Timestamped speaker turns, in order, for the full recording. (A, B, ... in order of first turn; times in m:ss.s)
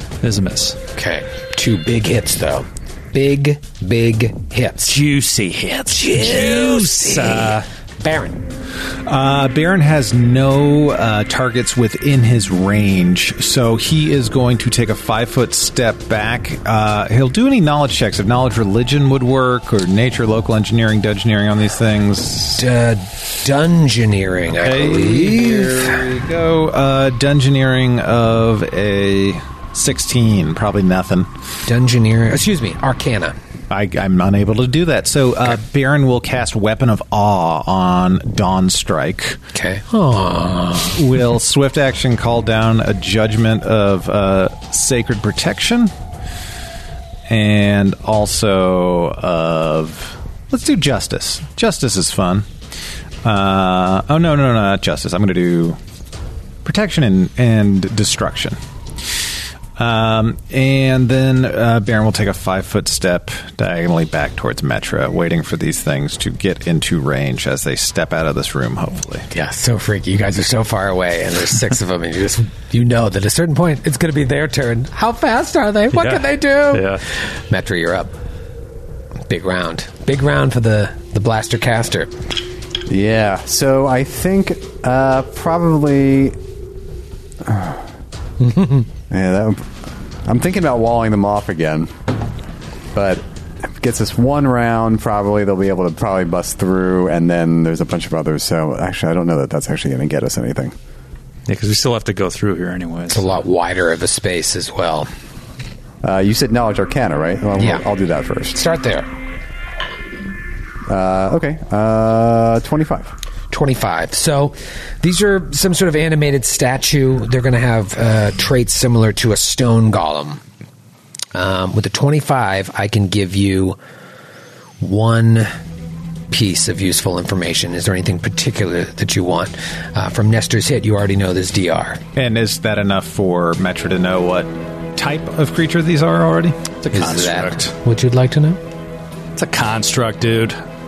0:00.2-0:00.8 A
0:00.9-0:05.0 B
0:05.0-0:06.2 C
0:05.1-0:07.7 A
0:06.0-0:08.4 B
0:09.0-0:22.6 D
0:22.6-0:26.0 B
0:24.5-0:31.3 D
0:31.6-0:33.4 B
0:33.7-0:39.4 D
0:39.5-0:41.0 B
0:40.9-0:45.9 D
0:47.3-0:52.5 D
0:53.2-0:55.8 D
0:56.6-0:58.6 D
0:59.8-1:09.3 D
1:09.3-1:18.1 B
1:15.9-1:17.0 A
1:19.3-1:22.1 B
1:22.9-1:26.4 E
1:27.4-1:27.8 E
1:28.4-1:28.8 B
1:29.1-1:29.7 E
1:30.2-1:31.9 E
1:32.9-1:40.7 E
1:41.5-1:43.3 A
1:43.1-1:45.1 B
1:46.0-1:48.6 E
1:47.6-1:47.8 B
1:48.5-1:49.1 B
1:50.9-1:53.1 E
1:53.5-2:00.4 B
2:01.3-2:03.8 B
2:04.8-2:05.5 B
2:06.3-2:12.0 B
2:12.2-2:16.6 D
2:16.8-2:17.7 C
2:16.9-2:18.6 B
2:19.4-2:20.6 C